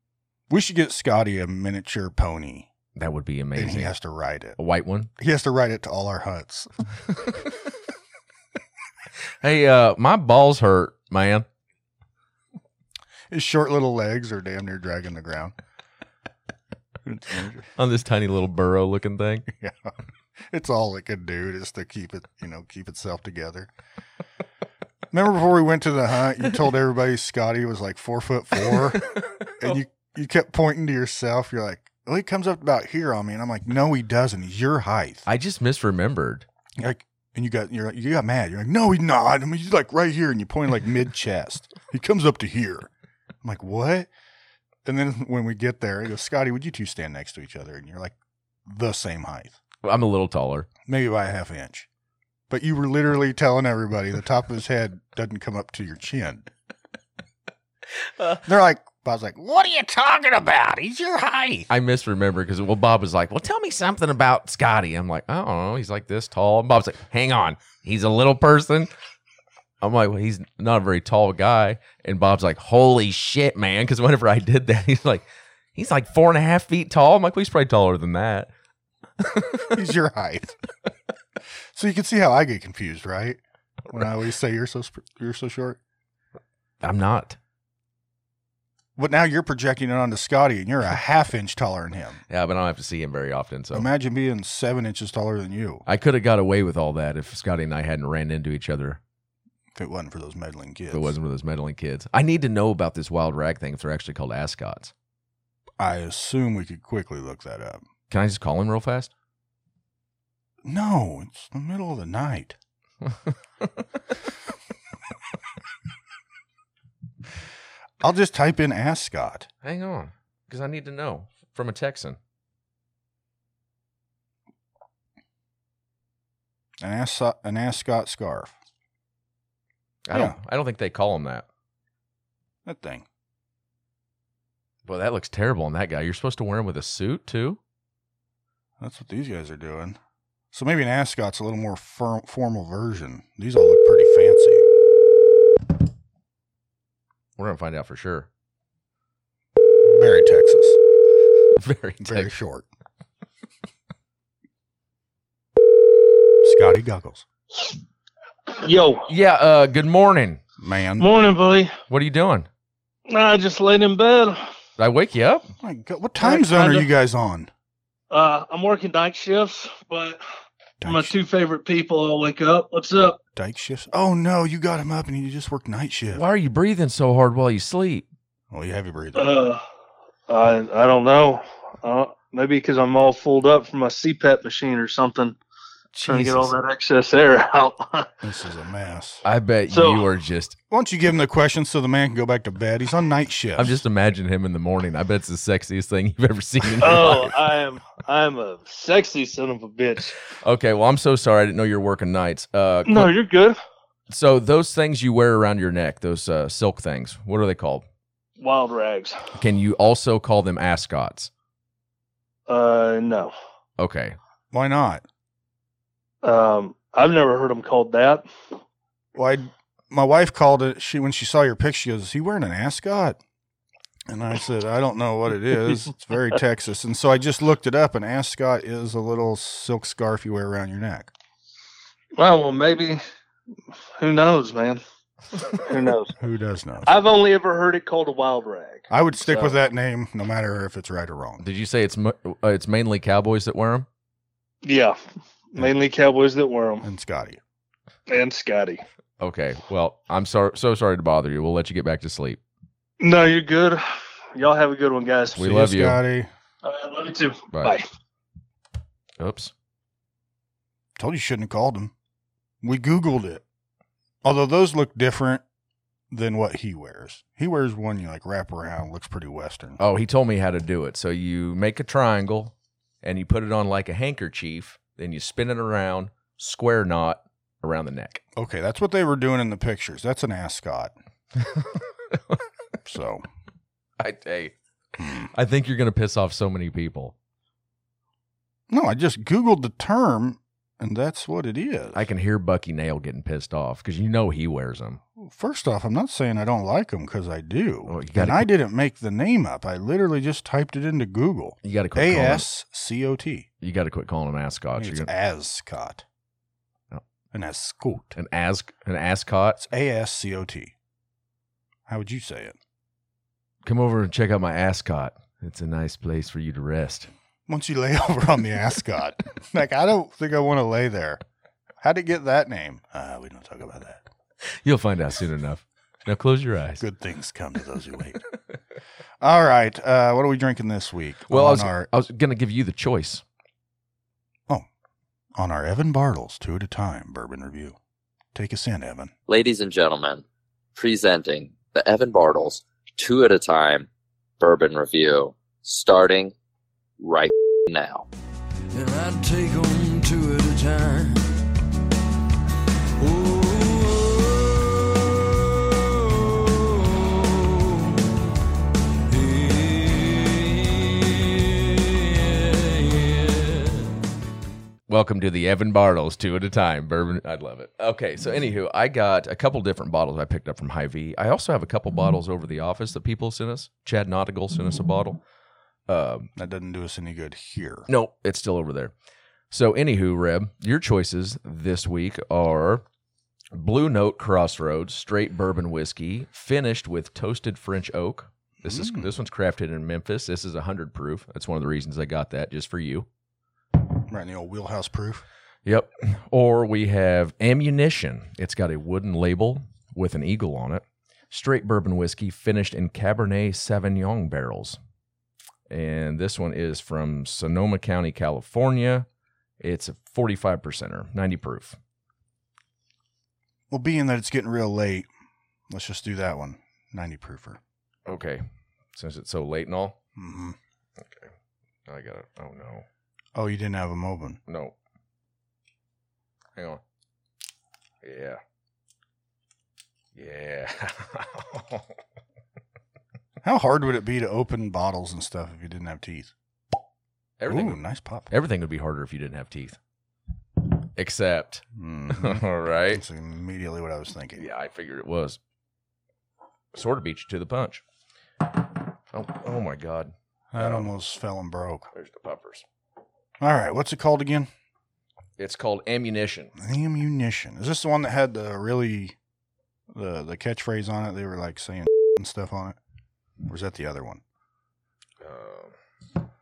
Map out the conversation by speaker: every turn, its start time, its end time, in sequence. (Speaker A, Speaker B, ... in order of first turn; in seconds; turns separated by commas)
Speaker A: 0.5-2.7, Speaker B: 3.0-4.0, Speaker A: 3.5-4.6, Speaker B: 4.6-5.1, Speaker A: 5.2-6.8, Speaker B: 9.4-11.4, Speaker A: 13.3-15.5, Speaker A: 17.0-17.7, Speaker B: 17.8-19.5, Speaker A: 19.5-23.7, Speaker A: 25.1-35.2, Speaker B: 35.2-36.4, Speaker A: 36.8-42.9, Speaker A: 43.4-44.1, Speaker A: 44.8-48.1, Speaker A: 48.7-49.6, Speaker B: 49.8-50.7, Speaker A: 50.9-51.9, Speaker A: 52.5-56.5, Speaker A: 58.4-61.7, Speaker B: 61.7-68.9, Speaker B: 69.8-75.2, Speaker B: 75.8-78.5, Speaker B: 79.2-79.8, Speaker A: 79.7-80.5, Speaker A: 81.7-85.8, Speaker B: 86.8-87.4, Speaker A: 89.0-92.2, Speaker B: 92.3-93.9, Speaker A: 93.7-95.8, Speaker B: 95.9-99.0, Speaker A: 99.8-101.1, Speaker B: 100.9-104.9, Speaker A: 105.8-107.8, Speaker B: 108.1-109.1, Speaker A: 110.6-112.6, Speaker A: 118.0-119.5, Speaker B: 119.6-122.2, Speaker A: 126.8-128.5, Speaker B: 130.1-131.4, Speaker A: 130.1-130.4, Speaker A: 132.6-133.1, Speaker B: 134.9-137.6, Speaker A: 138.8-140.0, Speaker A: 140.5-144.7, Speaker B: 147.4-148.3, Speaker A: 149.8-150.8, Speaker B: 151.6-152.3, Speaker A: 152.0-152.7, Speaker A: 156.4-157.2, Speaker C: 158.6-159.1, Speaker B: 159.1-160.4, Speaker A: 160.6-161.1, Speaker C: 161.0-161.7, Speaker B: 161.9-162.5, Speaker C: 163.1-164.5, Speaker B: 164.8-165.5, Speaker A: 165.6-167.5, Speaker C: 166.2-166.9, Speaker C: 168.1-170.2, Speaker A: 170.8-171.1, Speaker C: 170.8-173.2, Speaker A: 173.4-176.2, Speaker B: 176.1-178.1, Speaker A: 178.5-179.4, Speaker C: 179.1-179.6, Speaker C: 180.3-185.4, Speaker B: 185.9-186.6, Speaker C: 186.1-188.1, Speaker A: 188.2-189.2, Speaker B: 189.2-190.6, Speaker C: 189.7-190.1, Speaker A: 190.7-193.8, Speaker B: 193.6-197.3, Speaker C: 196.8-200.2, Speaker B: 200.4-203.1, Speaker C: 202.9-203.6, Speaker B: 204.1-207.9, Speaker C: 208.4-209.2, Speaker B: 209.4-211.3, Speaker C: 212.5-213.3, Speaker B: 213.8-214.2, Speaker A: 214.5-215.1, Speaker C: 216.2-218.3, Speaker A: 219.1-223.2, Speaker A: 224.1-231.1, Speaker C: 232.2-233.0, Speaker C: 234.0-234.8, Speaker C: 235.4-236.1, Speaker A: 236.2-237.0, Speaker C: 236.9-239.6, Speaker A: 238.9-241.4, Speaker B: 241.4-243.9, Speaker C: 244.6-245.0, Speaker C: 245.5-246.9, Speaker A: 246.8-247.4, Speaker C: 248.1-248.8, Speaker B: 249.2-252.4, Speaker C: 253.0-253.8, Speaker C: 254.3-255.4, Speaker B: 255.3-256.0, Speaker A: 255.4-256.3, Speaker C: 256.6-257.9, Speaker B: 257.5-257.8, Speaker B: 259.2-259.5, Speaker A: 261.0-261.9, Speaker A: 262.6-263.4, Speaker A: 264.2-265.4, Speaker A: 266.1-269.8, Speaker B: 269.8-278.2, Speaker A: 278.4-280.9, Speaker A: 282.8-283.2, Speaker B: 284.0-287.1, Speaker A: 285.0-285.3, Speaker A: 288.7-292.0, Speaker B: 291.9-295.0, Speaker A: 295.2-303.5, Speaker B: 297.9-298.5, Speaker B: 301.6-302.5, Speaker B: 303.6-305.1, Speaker A: 304.8-306.1, Speaker A: 307.3-308.2, Speaker B: 308.1-309.6, Speaker A: 309.6-310.7, Speaker A: 311.9-312.6, Speaker B: 313.6-317.1, Speaker A: 317.5-321.2, Speaker A: 321.8-324.1, Speaker B: 324.5-326.8, Speaker A: 326.8-328.2, Speaker A: 329.2-331.9, Speaker B: 331.3-333.2, Speaker A: 335.4-337.8, Speaker A: 338.3-339.1, Speaker D: 339.3-340.2, Speaker D: 340.8-343.9, Speaker D: 344.4-346.3, Speaker D: 347.0-348.1, Speaker E: 348.7-351.2, Speaker E: 353.0-355.4, Speaker E: 355.9-357.8, Speaker E: 359.1-361.4, Speaker E: 362.1-363.5, Speaker B: 364.9-375.2, Speaker B: 375.9-376.3, Speaker A: 376.4-377.9, Speaker B: 377.9-378.9, Speaker B: 379.5-382.8, Speaker B: 383.5-393.1, Speaker A: 388.6-389.1, Speaker A: 394.1-395.2, Speaker B: 395.6-404.8, Speaker B: 405.7-409.1, Speaker B: 409.6-411.8, Speaker A: 413.7-415.1, Speaker A: 415.7-417.6, Speaker B: 418.1-418.4, Speaker B: 418.9-419.9, Speaker A: 420.1-420.6, Speaker B: 421.0-421.3, Speaker B: 421.9-422.9, Speaker A: 423.4-424.4, Speaker B: 424.5-424.7, Speaker B: 426.6-426.8, Speaker B: 428.0-428.4, Speaker B: 430.1-431.9, Speaker A: 433.4-436.3, Speaker B: 437.4-439.8, Speaker A: 437.5-438.3, Speaker B: 440.9-443.0, Speaker A: 441.7-444.5, Speaker B: 444.4-445.4, Speaker B: 446.7-447.8, Speaker B: 449.1-450.9, Speaker A: 450.5-451.9, Speaker B: 451.9-452.6, Speaker A: 453.4-454.5, Speaker B: 455.4-456.5, Speaker A: 456.6-459.1, Speaker A: 459.9-462.8, Speaker A: 463.4-464.2, Speaker B: 465.2-465.8